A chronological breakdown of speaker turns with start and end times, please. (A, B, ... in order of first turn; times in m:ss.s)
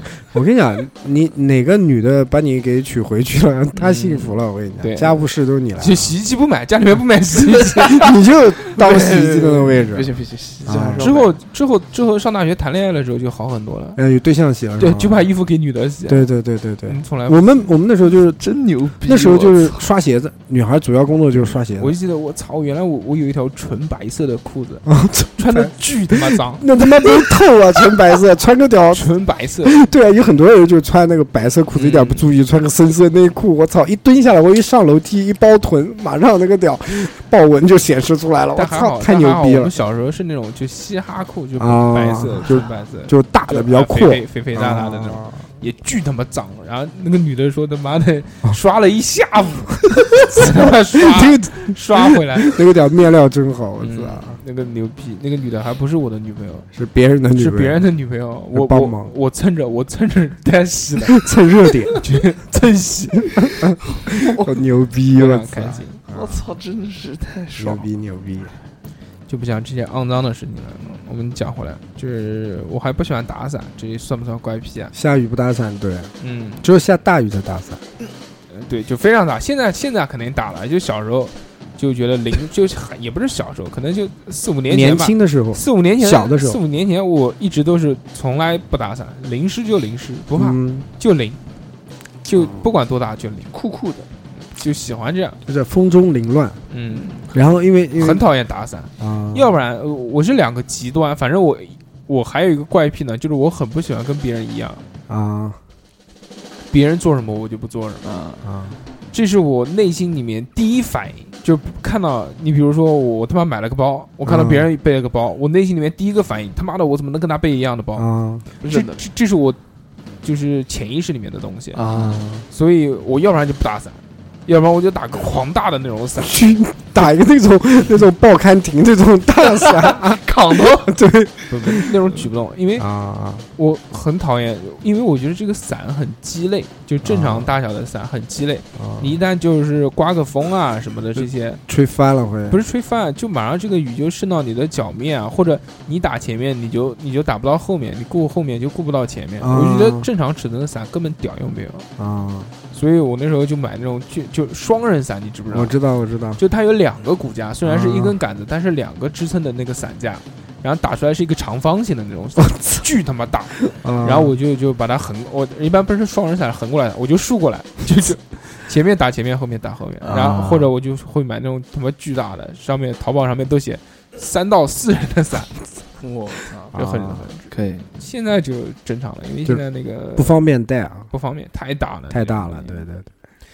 0:00.3-0:06.1 A
0:03.7-0:05.2 B
0:05.8-0:08.1 B
0:07.9-0:10.1 A
0:08.8-0:11.3 C
0:10.6-0:11.1 A
0:11.0-0:14.0 B
0:14.0-0:15.3 A
0:14.8-0:16.3 B
0:16.1-0:18.4 A
0:16.9-0:17.7 B
0:18.4-0:19.9 C
0:19.0-0:22.0 A
0:21.8-0:26.6 B
0:24.8-0:29.1 A
0:28.9-0:29.8 B
0:29.6-0:39.7 A
0:31.7-0:32.3 B
0:38.5-0:52.6 B
0:41.6-0:45.4 A
0:50.3-0:54.4 A
0:53.8-0:56.7 B
0:56.7-0:57.8 A
0:57.4-1:01.2 B
0:58.5-0:59.1 A
1:01.1-1:02.0 A
1:02.0-1:03.7 B
1:03.4-1:06.4 A
1:04.1-1:04.5 C
1:05.1-1:06.0 B
1:06.1-1:07.8 C
1:07.6-1:08.5 A
1:09.3-1:14.9 B
1:14.9-1:17.8 A
1:16.2-1:16.7 B
1:18.5-1:31.4 B
1:24.7-1:26.6 A
1:30.3-1:30.9 A
1:32.2-1:33.5 B
1:32.3-1:32.7 A
1:33.5-1:34.1 C
1:34.4-1:35.4 B
1:35.4-1:36.6 A
1:36.7-1:37.3 B
1:37.3-1:38.2 A
1:38.0-1:44.8 B
1:39.0-1:39.5 A
1:45.1-1:45.6 A
1:46.7-1:48.1 B
1:48.0-1:48.4 C
1:48.4-1:48.8 A
1:49.1-1:58.1 B
1:54.2-1:54.7 A
1:58.0-1:58.4 A
1:58.6-1:59.0 C
1:58.6-1:59.6 B
2:00.2-2:01.8 B
2:01.7-2:02.2 C
2:01.9-2:02.4 A
2:02.5-2:06.4 B
2:06.2-2:11.9 A
2:09.5-2:10.9 C
2:11.5-2:12.8 B
2:12.8-2:13.5 A
2:13.6-2:21.6 B
2:17.0-2:17.5 A
2:18.8-2:19.2 A
2:21.2-2:22.6 A
2:22.5-2:31.8 B
2:29.4-2:30.1 A
2:32.0-2:32.5 A
2:32.7-2:35.7 B
2:35.5-2:36.4 A
2:36.4-2:55.6 B
2:37.6-2:38.1 A
2:43.8-2:44.4 A
2:50.0-2:50.7 C
2:56.0-2:56.7 C
2:56.7-3:00.4 B
2:56.7-2:57.3 A
2:57.5-2:57.9 C
3:00.2-3:01.1 A
3:01.1-3:02.8 B
3:02.1-3:03.1 A